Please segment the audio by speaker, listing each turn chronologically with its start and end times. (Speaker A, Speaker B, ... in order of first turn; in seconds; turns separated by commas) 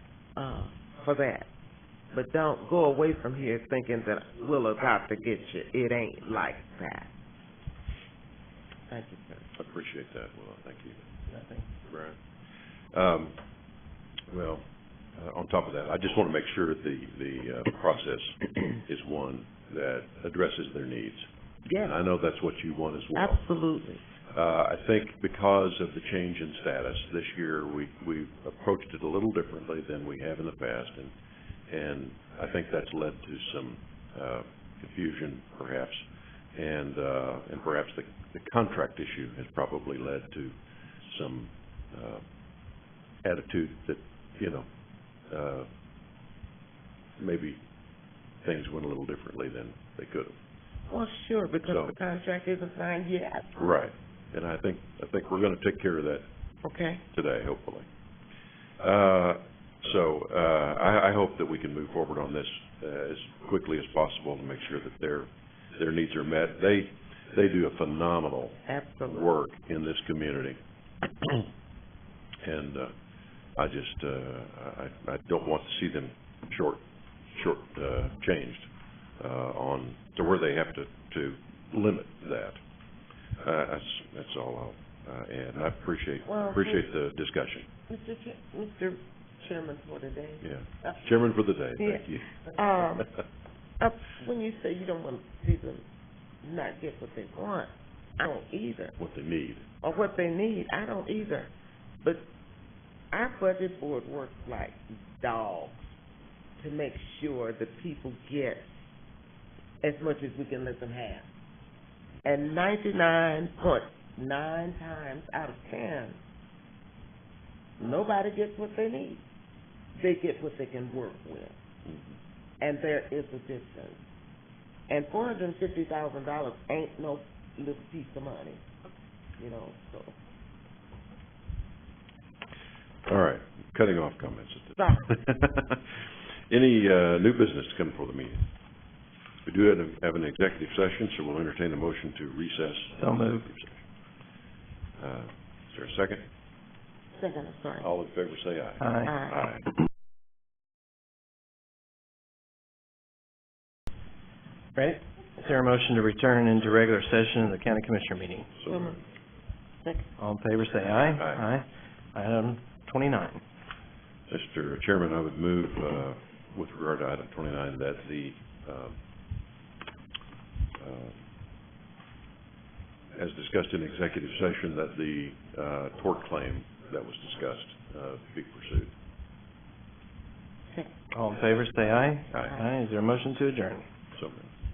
Speaker A: 0.3-1.5, Speaker A: 2.1-7.1, Speaker A: 8.9-9.5, Speaker B: 9.6-11.0, Speaker C: 11.3-11.7, Speaker B: 11.8-12.2, Speaker B: 12.9-13.3, Speaker B: 14.3-14.6, Speaker B: 15.1-21.3, Speaker A: 21.6-22.0, Speaker B: 21.8-23.4, Speaker A: 23.1-24.0, Speaker B: 24.3-31.1, Speaker B: 31.7-36.0, Speaker B: 36.5-40.5, Speaker B: 41.0-42.2, Speaker B: 43.2-44.6, Speaker B: 45.3-45.6, Speaker B: 47.2-47.6, Speaker B: 48.4-50.3, Speaker A: 50.9-53.6, Speaker B: 51.6-52.0, Speaker B: 53.6-56.2, Speaker A: 56.6-57.0, Speaker B: 57.1-57.9, Speaker B: 58.8-70.6, Speaker A: 68.6-69.3, Speaker B: 72.4-72.9, Speaker B: 73.5-78.7, Speaker B: 79.2-82.6, Speaker B: 83.4-87.7, Speaker A: 86.2-86.9, Speaker A: 87.9-91.0, Speaker B: 90.4-92.3, Speaker A: 91.8-93.1, Speaker A: 93.8-95.8, Speaker A: 96.4-99.0, Speaker B: 99.0-99.7, Speaker A: 99.8-102.3, Speaker A: 103.1-105.9, Speaker A: 106.6-108.7, Speaker A: 109.8-111.3, Speaker A: 112.2-116.2, Speaker A: 117.8-119.2, Speaker A: 119.9-121.5, Speaker B: 121.8-122.1, Speaker A: 122.6-124.0, Speaker A: 124.9-128.7, Speaker A: 129.4-130.2, Speaker B: 133.1-138.4, Speaker A: 134.8-135.1, Speaker B: 139.4-143.8, Speaker C: 143.0-143.5, Speaker B: 145.0-146.2, Speaker A: 147.2-147.9, Speaker B: 147.8-149.7, Speaker C: 148.8-149.1, Speaker A: 149.0-149.4, Speaker C: 154.7-158.5, Speaker B: 158.6-158.9, Speaker A: 158.7-159.0, Speaker C: 160.2-163.4, Speaker B: 161.0-161.4, Speaker B: 164.3-168.9, Speaker B: 170.8-171.2, Speaker B: 173.2-178.9, Speaker C: 181.1-183.8, Speaker B: 184.1-184.5